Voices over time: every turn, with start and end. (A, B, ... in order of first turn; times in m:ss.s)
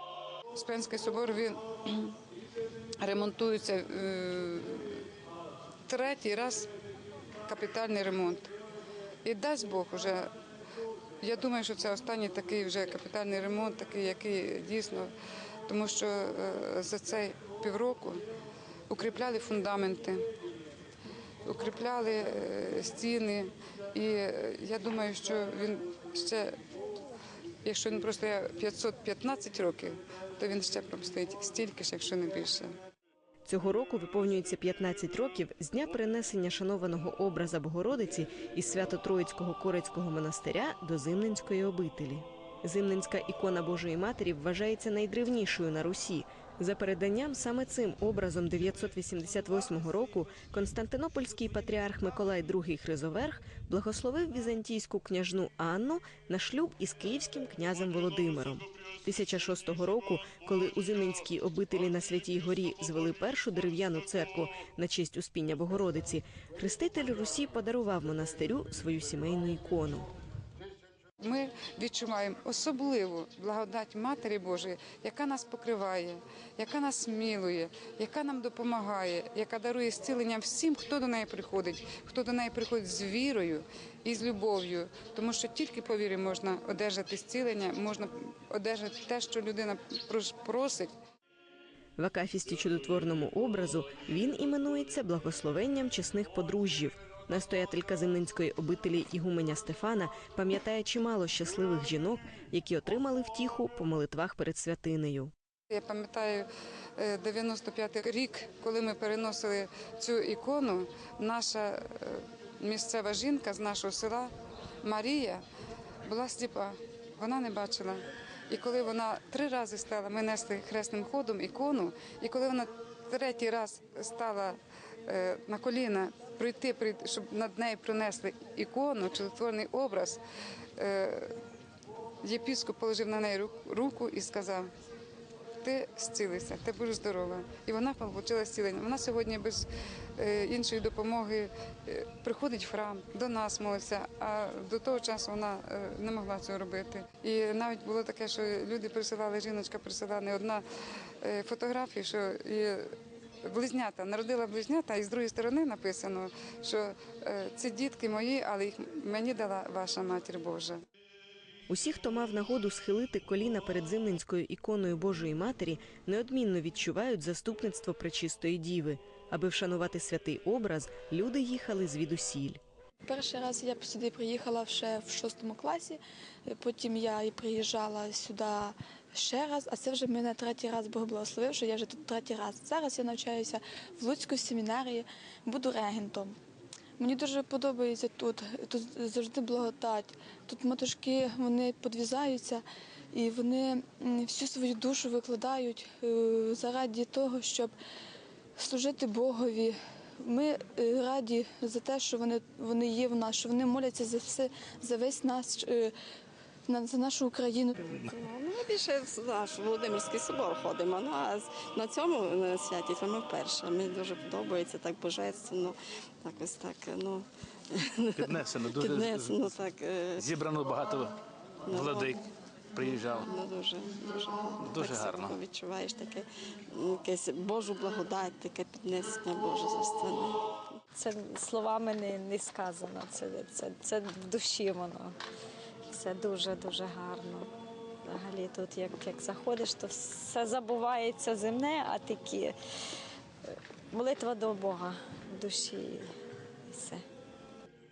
0:00.6-0:02.2 A
0:03.0-0:05.0 A
0:05.9-0:06.7 A
0:07.5-0:08.5 A
0:09.2-0:10.3 A
0:11.2-0:15.1 A
0:15.7-0:18.2 A
0:18.9-0:20.2 A
0:21.4-0:26.5 A
0:27.6-0:32.7 A
0:33.5-1:10.1 B
1:11.2-1:30.9 A
1:32.0-1:45.3 B
1:45.7-1:46.5 A
1:47.0-1:54.3 A
1:54.8-1:55.4 A
1:56.1-2:10.2 A
2:10.8-2:11.3 A
2:12.2-2:14.7 A
2:15.6-2:30.6 A
2:31.2-2:32.9 A
2:33.4-2:40.8 A
2:41.7-2:52.6 B
2:53.1-3:06.4 C
3:07.0-3:17.7 C
3:18.6-3:25.9 C
3:26.7-3:27.8 C
3:27.8-3:40.4 D
3:38.2-3:39.4 E
3:40.2-3:41.2 E
3:41.7-3:42.3 D
3:41.7-3:42.2 E
3:42.8-3:43.3 E
3:43.0-3:50.8 D
3:44.6-3:45.4 E
3:51.0-3:55.2 F
3:55.9-3:57.5 F
3:58.0-4:02.6 F
4:03.5-4:06.1 F
4:06.7-4:07.0 F